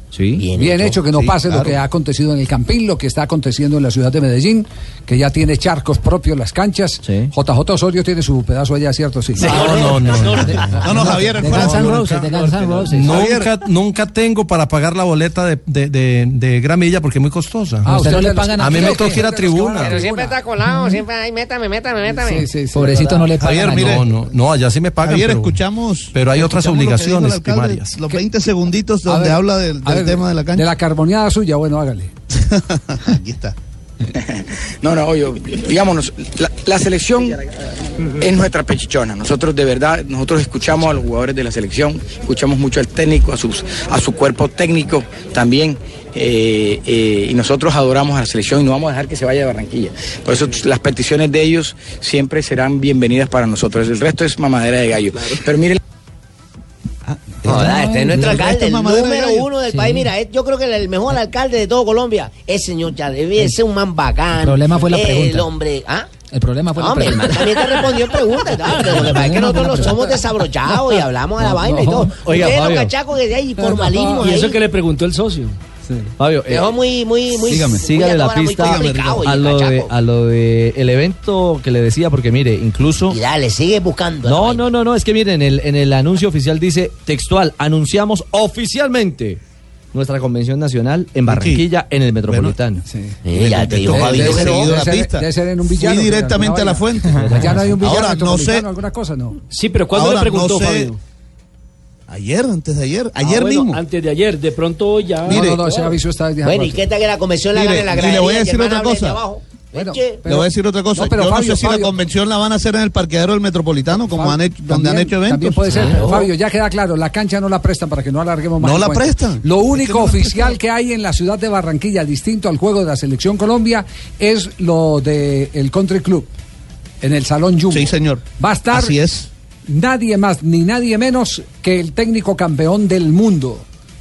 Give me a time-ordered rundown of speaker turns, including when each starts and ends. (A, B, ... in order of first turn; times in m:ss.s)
0:00.1-0:00.5 A
0:00.4-0:01.0 B
0:00.6-0:10.0 C
0:01.0-0:01.8 D
0:07.0-0:07.3 A
0:09.4-0:10.6 E
0:09.4-0:09.8 D
0:09.4-0:10.6 F
0:10.8-0:12.3 D
0:10.8-0:13.2 G
0:11.4-0:12.2 F
0:12.3-0:12.8 E
0:12.9-0:20.0 F
0:13.0-0:13.5 D
0:17.8-0:20.9 C
0:17.9-0:19.2 G
0:19.8-0:22.5 B
0:22.1-0:23.4 C
0:22.7-0:24.0 G
0:23.4-0:24.1 D
0:23.8-0:25.6 F
0:25.0-0:30.7 D
0:26.1-0:28.0 F
0:29.0-0:32.1 C
0:32.3-0:33.5 D
0:34.1-0:37.4 H
0:38.2-0:55.8 H
0:57.1-0:59.5 D
0:57.4-1:06.1 B
0:57.6-0:58.1 G
0:59.7-1:00.1 G
1:04.4-1:05.5 G
1:06.3-1:07.8 G
1:06.8-1:14.6 B
1:08.9-1:10.0 G
1:11.5-1:12.1 C
1:12.1-1:12.9 A
1:13.6-1:14.4 C
1:14.2-1:15.5 E
1:16.2-1:16.8 A
1:16.5-1:19.9 B
1:17.5-1:17.8 D
1:17.5-1:23.2 A
1:18.6-1:19.3 D
1:23.1-1:24.6 B
1:24.2-1:29.4 A
1:29.9-1:32.8 A
1:31.3-1:31.6 D
1:32.3-1:32.6 D
1:32.8-1:33.2 C
1:33.2-1:34.7 B
1:33.3-1:38.7 D
1:33.9-1:39.4 C
1:37.2-1:37.8 A
1:39.5-1:41.0 E
1:39.9-1:40.9 D
1:42.1-1:43.8 D
1:43.2-1:46.0 E
1:45.2-1:46.8 C
1:45.2-1:45.6 D
1:46.4-1:50.2 B
1:47.5-1:49.2 D
1:49.7-1:52.0 C
1:50.2-1:56.0 D
1:54.0-2:06.3 C
1:55.7-1:56.3 B
1:58.6-2:00.6 D
2:07.0-2:09.0 C
2:07.7-2:09.3 D
2:09.7-2:13.6 C